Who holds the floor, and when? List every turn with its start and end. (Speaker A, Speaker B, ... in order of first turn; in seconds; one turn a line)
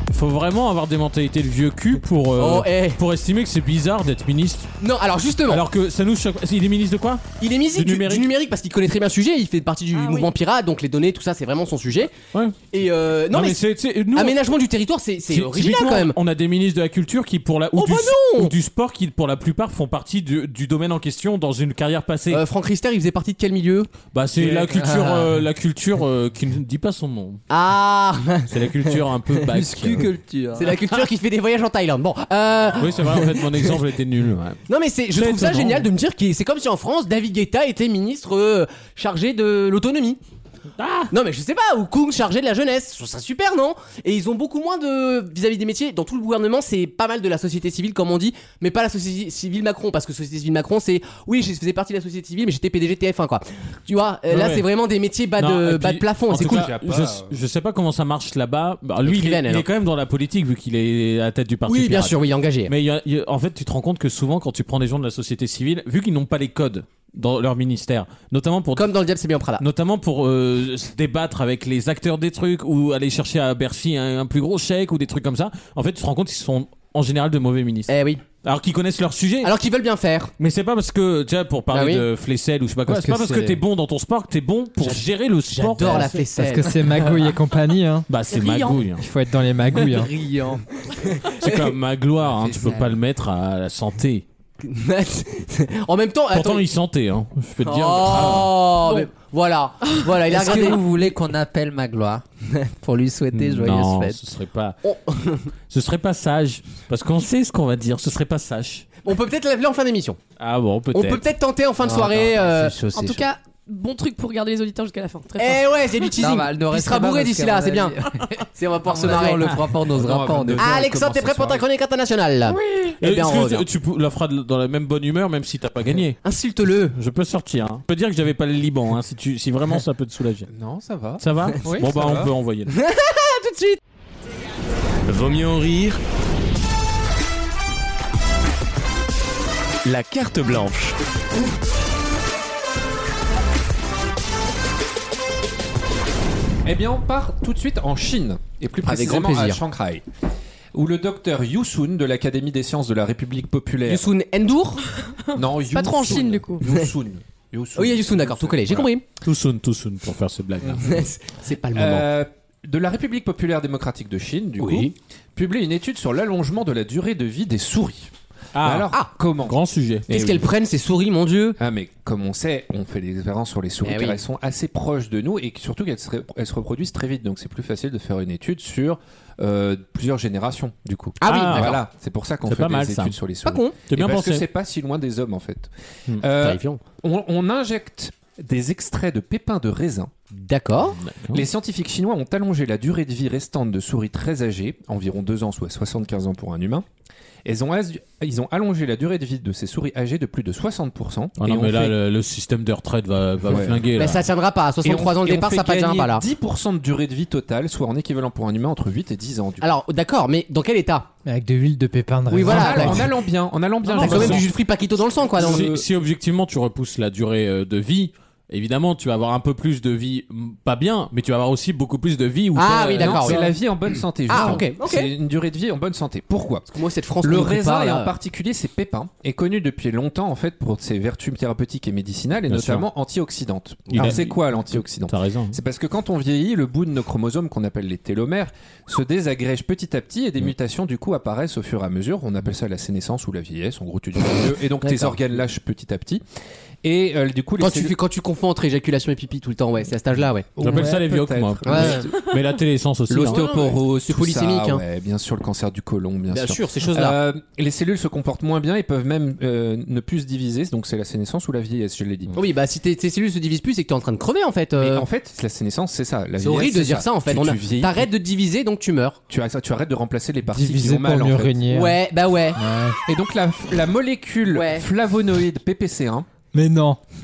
Speaker A: 0.1-4.7
Speaker B: 2.4-3.0
Speaker B: 4.8-5.6
Speaker A: 5.5-8.3
Speaker B: 7.4-12.1
Speaker C: 9.9-10.3
Speaker A: 12.3-12.6
Speaker B: 12.7-13.6
Speaker A: 13.3-14.4
Speaker B: 14.1-16.2
Speaker A: 15.3-22.4
Speaker B: 17.7-18.5
Speaker B: 22.3-23.9
Speaker A: 24.1-27.4
Speaker D: 24.9-25.2
Speaker B: 27.5-28.8
Speaker A: 28.5-30.1
Speaker D: 29.4-30.8
Speaker B: 30.6-33.7
Speaker A: 32.8-34.6
Speaker B: 34.7-40.2
Speaker A: 35.1-35.9
Speaker A: 40.8-41.1
Speaker B: 41.1-56.7
Speaker A: 54.3-54.7
Speaker A: 55.4-68.9
Speaker E: 56.3-57.3
Speaker B: 59.0-59.7
Speaker B: 61.7-62.7
Speaker B: 68.8-69.6
Speaker A: 69.6-77.9
Speaker B: 77.9-78.2
Speaker A: 78.4-79.5
Speaker B: 79.4-80.3
Speaker A: 80.4-86.2
Speaker B: 81.7-82.0
Speaker F: 82.9-83.6
Speaker B: 84.8-87.2
Speaker F: 86.0-88.1
Speaker A: 88.1-89.0
Speaker C: 88.3-88.9
Speaker F: 89.0-90.1
Speaker D: 89.7-90.7
Speaker B: 91.0-91.6
Speaker A: 91.4-94.2
Speaker D: 92.3-93.0
Speaker B: 94.6-96.6
Speaker A: 96.3-98.6
Speaker B: 97.6-100.8
Speaker C: 98.8-99.1
Speaker D: 100.3-104.2
Speaker A: 103.3-104.8
Speaker B: 104.8-105.5
Speaker A: 105.7-108.9
Speaker B: 109.0-110.2
Speaker A: 110.4-111.3
Speaker B: 110.9-112.8
Speaker D: 111.8-113.2
Speaker C: 112.9-116.1
Speaker B: 115.4-118.0
Speaker D: 116.2-118.2
Speaker B: 118.5-119.6
Speaker D: 118.8-120.8
Speaker E: 119.9-121.6
Speaker B: 120.6-123.6
Speaker A: 123.0-126.2
Speaker B: 126.2-127.0
Speaker A: 126.9-130.5
Speaker E: 130.5-132.3
Speaker A: 131.2-132.8
Speaker B: 132.7-133.8
Speaker G: 135.1-136.0
Speaker G: 139.8-141.0
Speaker E: 146.6-150.1
Speaker B: 148.8-149.6
Speaker E: 150.7-154.1
Speaker B: 153.9-154.8
Speaker C: 155.2-156.7
Speaker E: 155.3-158.9
Speaker B: 157.8-159.0
Speaker A: 159.2-161.0
Speaker E: 160.6-160.9
Speaker B: 160.8-162.1
Speaker E: 161.8-170.5
Speaker B: 164.6-164.9
Speaker A: 168.5-170.1
Speaker B: 170.1-171.6
Speaker E: 171.6-190.1
Speaker B: 173.8-174.2
Speaker B: 181.2-181.8
Speaker A: 181.3-181.8
Speaker A: 182.5-183.2
Speaker B: 183.4-183.8
Speaker A: 183.9-184.4
Speaker B: 186.4-186.8
Speaker B: 190.4-191.0
Speaker A: 191.0-191.5
Speaker E: 191.3-196.9
Speaker E: 197.4-201.9
Speaker A: 201.4-204.2
Speaker E: 203.5-203.9
Speaker B: 203.9-206.2
Speaker E: 204.8-209.7
Speaker B: 209.6-211.1
Speaker F: 211.2-213.1
Speaker B: 212.3-213.1
Speaker E: 212.4-214.5
Speaker A: 213.9-214.5
Speaker B: 214.0-215.7
Speaker E: 215.3-215.9
Speaker A: 215.4-223.5
Speaker B: 222.6-223.5
Speaker E: 223.0-246.2
Speaker B: 224.3-225.1
Speaker B: 226.7-228.2
Speaker A: 232.5-232.9
Speaker A: 233.9-235.6
Speaker B: 244.8-245.3
Speaker E: 246.8-247.9
Speaker B: 247.6-250.8
Speaker E: 250.6-252.3
Speaker A: 250.6-253.5
Speaker B: 251.7-252.1
Speaker E: 253.1-262.4
Speaker B: 253.2-254.8
Speaker B: 256.3-257.2
Speaker B: 262.3-265.1
Speaker E: 264.8-268.1
Speaker B: 266.4-269.2
Speaker E: 269.3-271.7
Speaker F: 270.5-272.0
Speaker B: 271.7-272.6
Speaker F: 272.6-273.0
Speaker E: 273.1-276.3
Speaker B: 274.5-274.9
Speaker F: 276.5-277.0